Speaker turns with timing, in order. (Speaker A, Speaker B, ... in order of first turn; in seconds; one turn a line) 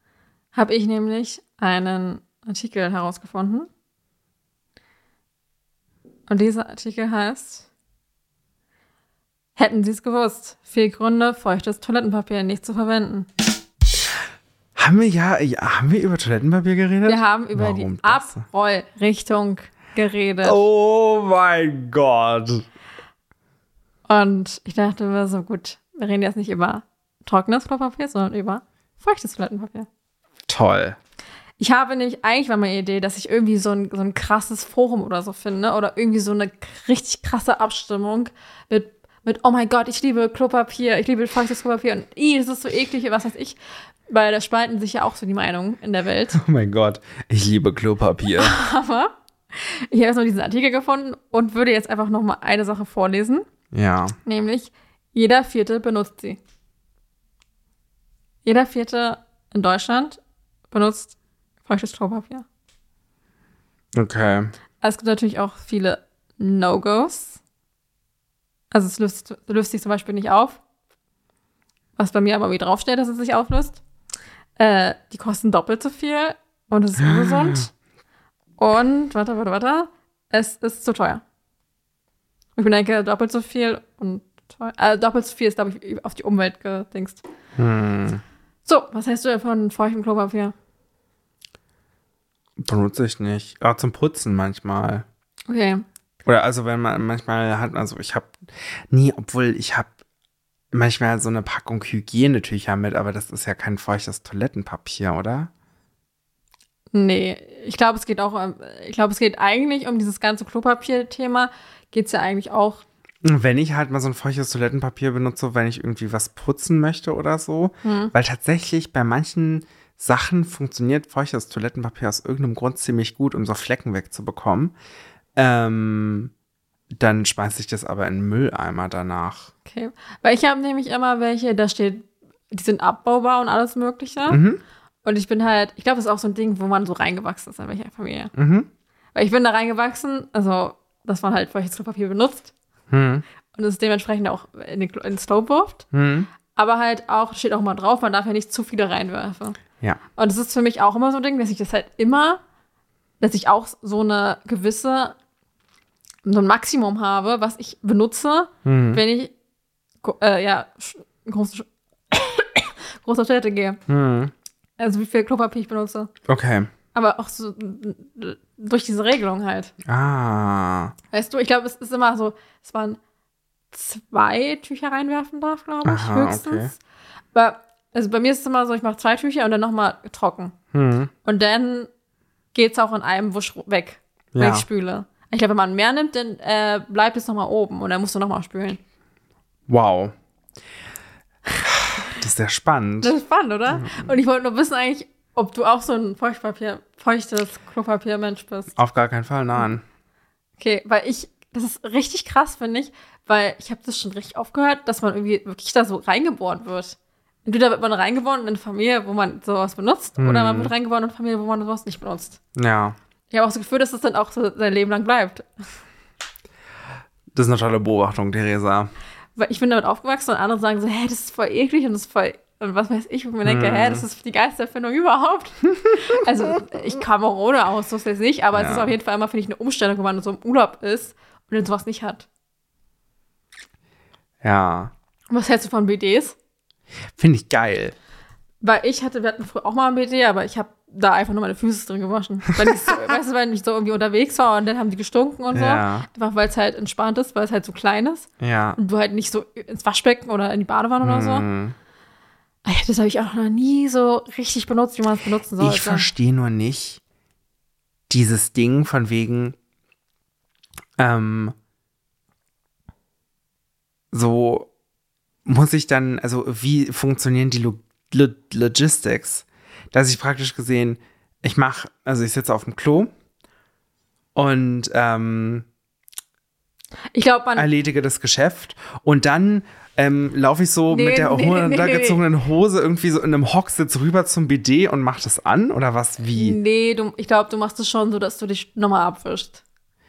Speaker A: 0.5-3.7
Speaker A: 6.3-7.7
Speaker A: 9.6-13.3
Speaker B: 14.8-18.5
Speaker A: 17.1-20.6
Speaker B: 20.4-22.7
Speaker A: 24.1-29.9
Speaker B: 30.5-31.0
Speaker A: 31.6-43.6
Speaker A: 44.1-46.4
Speaker B: 46.3-48.6
Speaker A: 48.4-53.5
Speaker B: 53.7-54.2
Speaker A: 54.2-56.4
Speaker A: 58.5-60.2
Speaker A: 60.7-62.5
Speaker B: 63.9-64.5
Speaker A: 64.8-67.4
Speaker A: 68.7-70.6
Speaker A: 72.0-73.8
Speaker A: 74.6-77.7
Speaker B: 77.0-77.7
Speaker A: 78.6-81.2
Speaker A: 82.6-87.2
Speaker B: 87.6-88.2
Speaker A: 88.7-90.5
Speaker B: 92.6-95.1
Speaker A: 95.5-95.8
Speaker B: 96.2-98.4
Speaker B: 98.9-99.9
Speaker B: 100.7-105.5
Speaker A: 106.9-112.8
Speaker B: 113.2-124.7
Speaker A: 117.8-118.1
Speaker B: 125.4-126.3
Speaker B: 127.0-129.5
Speaker A: 129.7-134.4
Speaker B: 134.3-134.6
Speaker A: 135.0-138.3
Speaker B: 138.3-138.7
Speaker A: 139.1-142.5
Speaker B: 142.9-143.2
Speaker A: 143.5-145.9
Speaker B: 145.9-146.3
Speaker A: 146.6-149.6
Speaker A: 150.2-152.4
Speaker A: 153.2-155.2
Speaker A: 156.2-159.3
Speaker B: 158.7-159.0
Speaker A: 160.0-163.8
Speaker B: 163.9-164.3
Speaker A: 164.8-166.1
Speaker B: 166.3-166.7
Speaker A: 166.9-169.7
Speaker B: 169.8-170.9
Speaker A: 171.1-173.0
Speaker A: 173.7-176.8
Speaker B: 175.8-176.7
Speaker A: 177.3-180.6
Speaker B: 180.7-181.1
Speaker A: 181.2-181.9
Speaker A: 182.5-188.8
Speaker B: 184.3-184.7
Speaker B: 189.7-190.1
Speaker B: 191.7-193.2
Speaker A: 193.0-198.7
Speaker B: 193.7-194.1
Speaker B: 198.8-199.8
Speaker A: 200.6-212.4
Speaker B: 210.2-210.7
Speaker B: 212.6-213.0
Speaker A: 213.3-215.5
Speaker B: 217.3-218.9
Speaker A: 219.4-232.3
Speaker B: 223.4-224.1
Speaker B: 228.5-228.9
Speaker B: 234.4-234.9
Speaker A: 235.3-236.4
Speaker B: 237.2-237.9
Speaker A: 238.6-251.5
Speaker B: 245.5-246.1
Speaker B: 248.4-248.8
Speaker B: 251.0-251.8
Speaker A: 252.7-256.1
Speaker B: 255.6-257.0
Speaker B: 258.1-259.6
Speaker B: 261.0-261.6
Speaker B: 264.1-264.7
Speaker B: 265.4-273.1
Speaker B: 274.4-275.7
Speaker A: 277.1-277.7
Speaker B: 277.6-286.6
Speaker A: 280.9-282.2
Speaker A: 286.3-289.6